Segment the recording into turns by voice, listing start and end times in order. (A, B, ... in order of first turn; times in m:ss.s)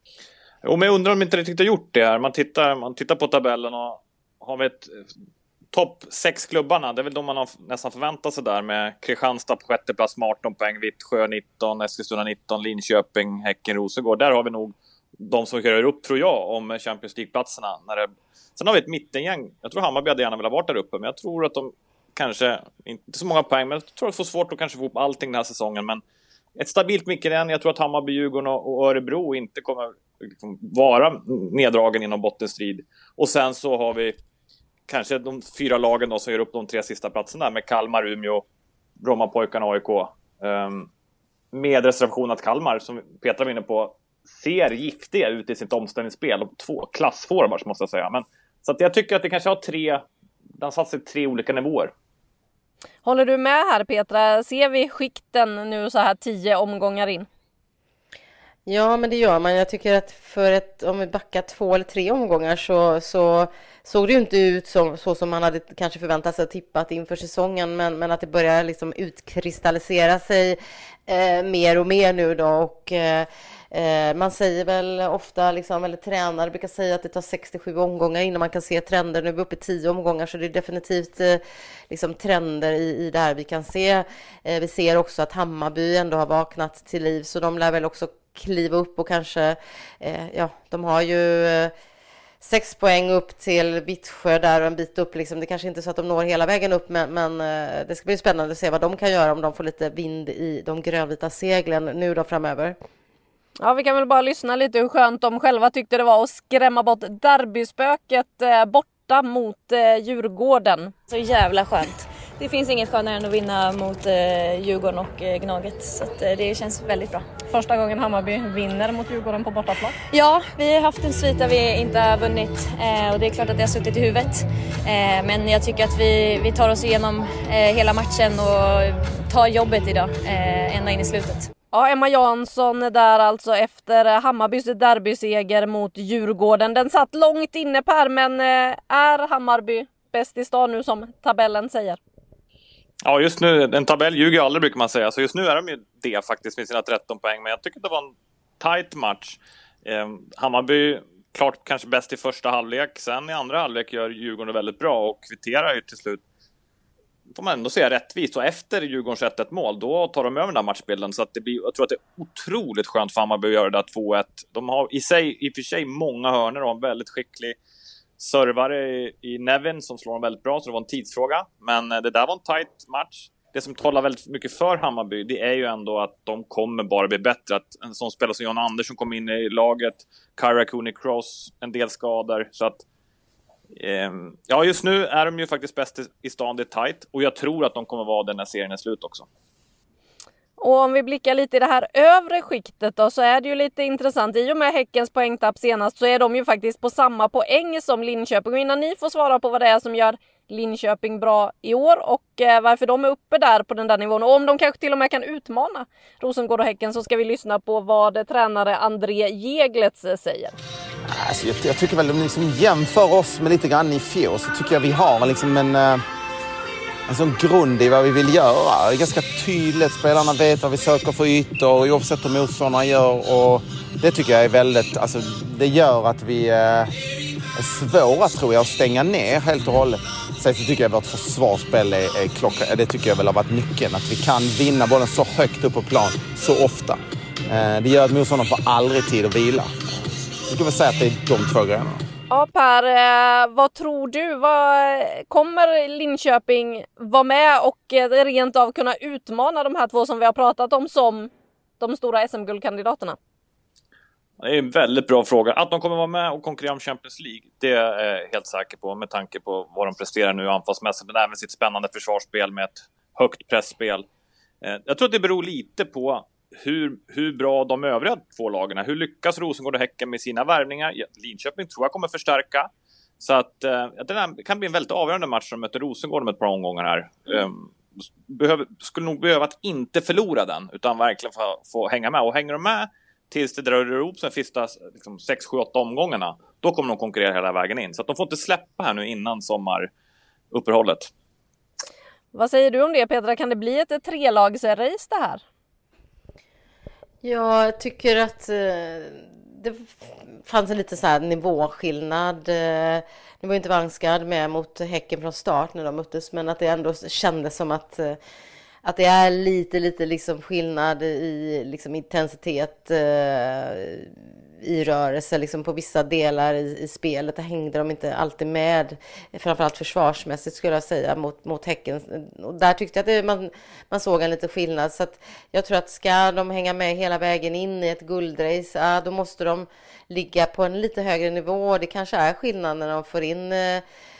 0:00.6-0:05.1 A
0:05.7-0:26.0 A
0:26.6-0:34.2 A
0:34.9-0:38.4 A
0:39.0-0:40.9 A
0:41.5-0:50.0 A
0:50.6-0:51.9 A
0:53.0-0:57.3 B
0:58.7-1:31.7 C
1:32.4-1:42.8 C
1:43.6-1:50.9 B
1:51.1-1:57.3 D
1:57.5-2:00.0 B
2:00.1-2:11.5 D
2:11.7-2:22.0 B
2:23.0-2:36.2 A
2:37.3-2:47.6 A
2:48.2-3:02.8 A
3:03.7-3:09.3 A
3:10.6-3:30.6 B
3:31.1-3:36.0 E
3:37.1-3:47.0 E
3:47.6-3:59.8 E
4:00.5-4:02.0 E
4:02.3-4:13.2 B
4:14.4-4:24.1 A
4:24.6-4:32.7 A
4:33.2-4:37.7 A
4:38.3-4:49.9 A
4:50.5-4:51.1 A
4:52.3-4:55.4 B
4:57.2-5:08.2 C
5:08.8-5:33.8 C